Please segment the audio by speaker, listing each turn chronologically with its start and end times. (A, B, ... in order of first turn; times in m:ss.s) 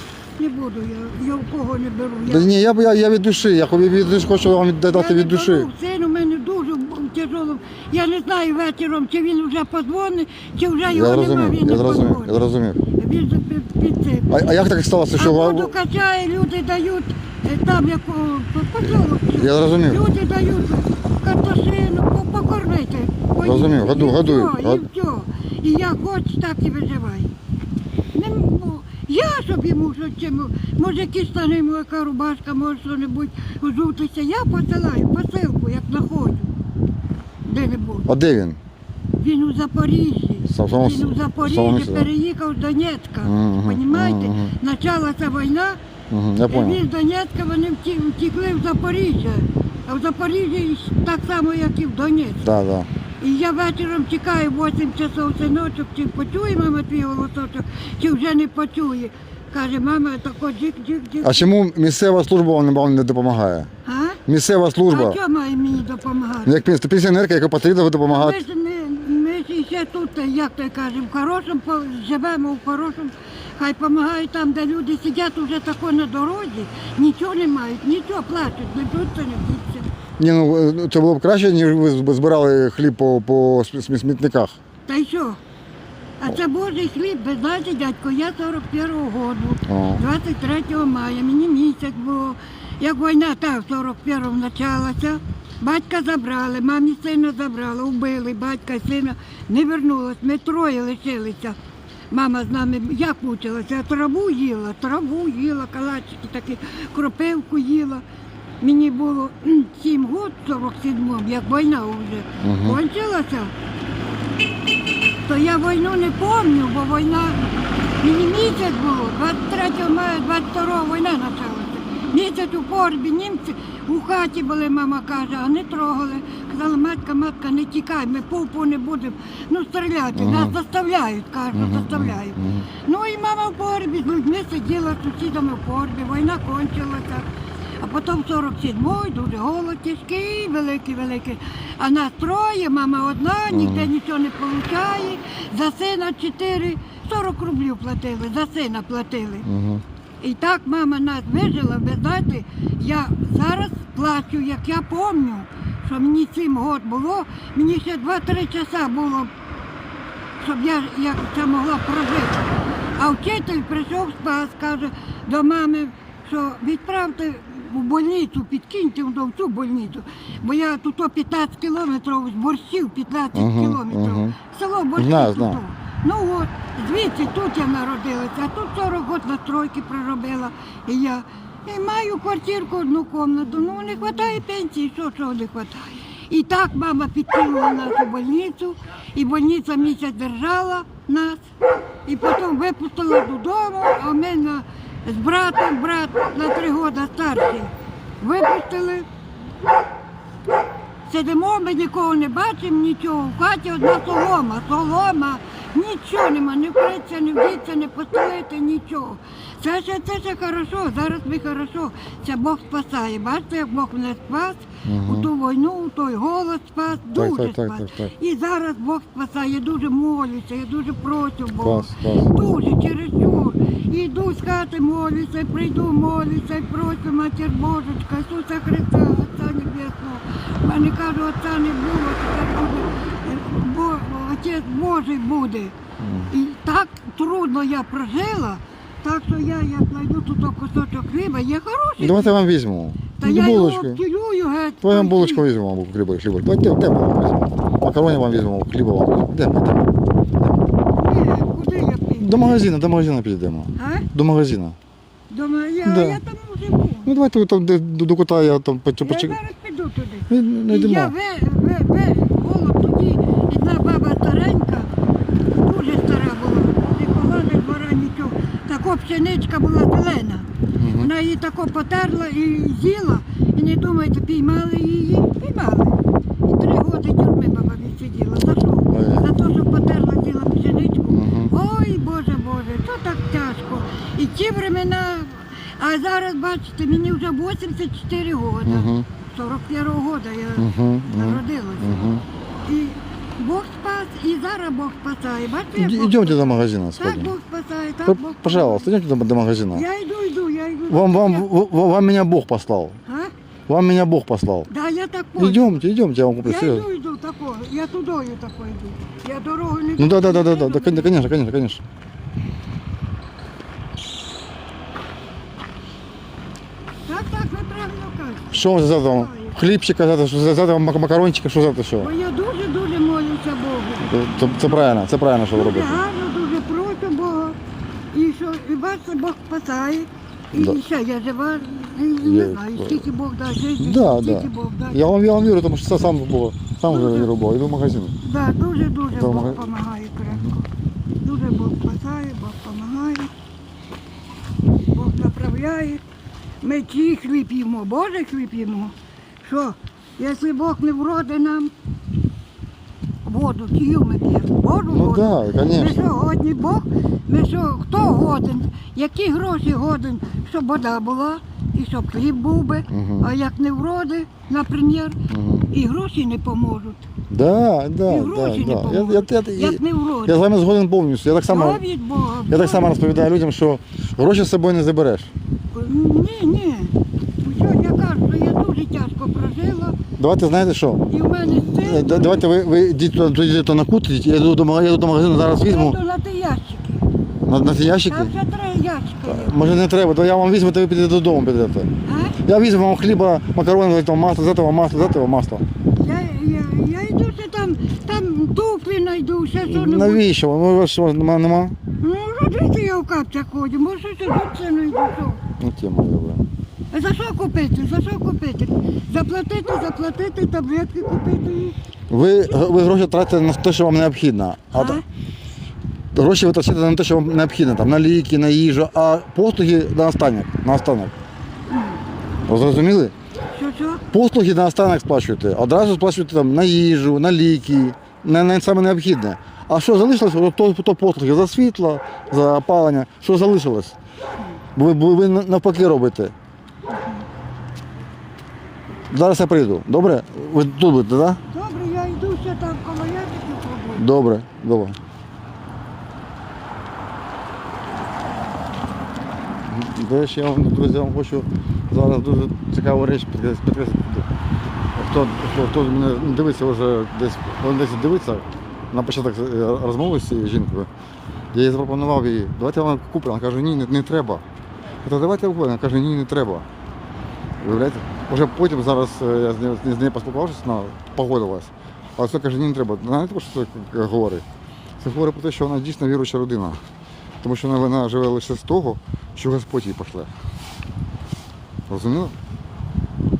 0:00.4-0:02.7 A
0:02.2-0:05.7 B
0:04.9-0:12.4 A
0:10.8-0:12.8 B
0:13.0-0:14.4 A
0:14.3-0:15.7 B
0:15.2-0:27.3 A
0:18.8-0:20.0 B
0:23.4-0:24.8 B
0:28.1-0:36.5 A
0:37.4-0:38.1 A
0:38.1-0:38.6 B
0:39.2-0:45.8 A
0:40.5-0:42.1 B
0:43.2-0:44.5 B
0:46.1-0:46.8 B
0:46.5-0:52.4 A
0:52.4-0:52.9 B
0:53.2-1:01.4 A
1:01.2-1:03.7 B
1:03.8-1:04.2 A
1:04.3-1:05.2 B
1:04.9-1:06.6 A
1:06.4-1:08.4 B
1:08.1-1:19.9 A
1:20.2-1:24.6 B
1:24.9-1:25.4 A
1:26.2-1:41.6 A
1:29.7-1:30.0 B
1:42.1-1:48.0 A
1:48.6-1:53.5 A
1:52.4-1:52.8 B
1:55.2-1:57.4 A
1:58.0-2:17.3 A
2:10.1-2:10.6 B
2:11.5-2:12.7 B
2:17.8-2:29.5 A
2:23.5-2:23.9 B
2:29.4-2:29.8 B
2:30.2-2:39.3 A
2:40.4-2:42.4 A
2:43.0-3:11.4 A
2:53.3-2:54.4 B
2:55.0-2:55.6 B
3:12.1-3:19.1 A
3:21.1-3:55.8 A
3:34.8-3:35.3 B
3:37.1-3:38.1 B
3:41.6-3:42.3 B
3:56.0-3:56.3 B
3:56.3-4:02.4 A
4:02.0-4:04.0 B
4:03.2-4:05.5 A
4:04.8-4:09.9 B
4:10.9-4:12.6 A
4:12.2-4:14.8 B
4:13.8-4:14.1 A
4:15.3-4:17.1 A
4:15.8-4:16.2 B
4:17.1-4:19.4 B
4:19.0-4:24.9 A
4:20.3-4:21.2 B
4:25.6-4:52.0 A
4:30.8-4:31.1 B
4:38.9-4:39.3 B
4:41.1-4:41.5 B
4:48.7-4:49.1 B
4:50.6-4:52.2 B
4:52.7-4:58.9 A
4:55.8-4:57.3 B
4:58.1-4:59.8 B
4:59.7-5:01.5 A
5:00.9-5:03.0 B
5:03.1-5:03.3 A
5:03.7-5:04.7 B
5:04.7-5:05.7 A
5:05.4-5:06.9 B
5:06.4-5:11.3 A
5:10.0-5:11.8 B
5:17.1-5:19.6 A
5:18.5-5:22.1 B
5:22.0-5:24.1 A
5:24.0-5:26.0 B
5:25.5-5:27.6 A
5:28.1-5:35.0 A
5:32.2-5:33.1 B
5:33.8-5:38.2 B
5:36.9-5:37.3 A
5:38.2-5:40.7 A
5:39.1-5:39.7 B
5:41.2-5:43.3 A
5:44.9-5:46.0 A
5:46.6-5:51.7 A
5:53.2-6:05.2 A
5:54.9-5:56.0 B
6:02.9-6:03.3 B
6:05.3-6:05.7 B
6:05.7-6:07.0 A
6:07.3-6:11.8 B
6:08.1-6:10.4 A
6:11.5-6:13.0 A
6:12.5-6:15.3 B
6:15.7-6:20.0 A
6:20.2-6:26.0 B
6:21.1-6:22.4 A
6:25.5-6:27.1 A
6:27.5-6:28.4 B
6:28.1-6:29.8 A
6:29.2-6:31.9 B
6:32.0-6:32.4 A
6:32.4-6:35.6 B
6:36.0-6:40.2 A
6:39.7-6:41.8 B
6:42.0-6:45.4 A
6:45.6-6:46.5 B
6:46.9-6:51.8 A
6:52.1-6:55.0 B
6:54.7-6:55.0 A
6:56.1-7:01.1 B
7:01.7-7:02.0 A
7:02.5-7:03.1 B
7:03.5-7:04.0 A
7:04.1-7:14.0 B
7:14.8-7:16.3 B
7:16.9-7:17.2 A
7:19.1-7:21.4 B
7:21.5-7:24.1 A
7:24.0-7:25.0 B
7:29.7-7:34.3 B
7:35.0-7:40.9 B
7:41.5-7:44.4 B
7:45.0-7:46.7 B
7:47.6-7:54.4 B
7:55.0-7:56.8 B
7:57.4-8:00.3 B
8:01.9-8:02.4 B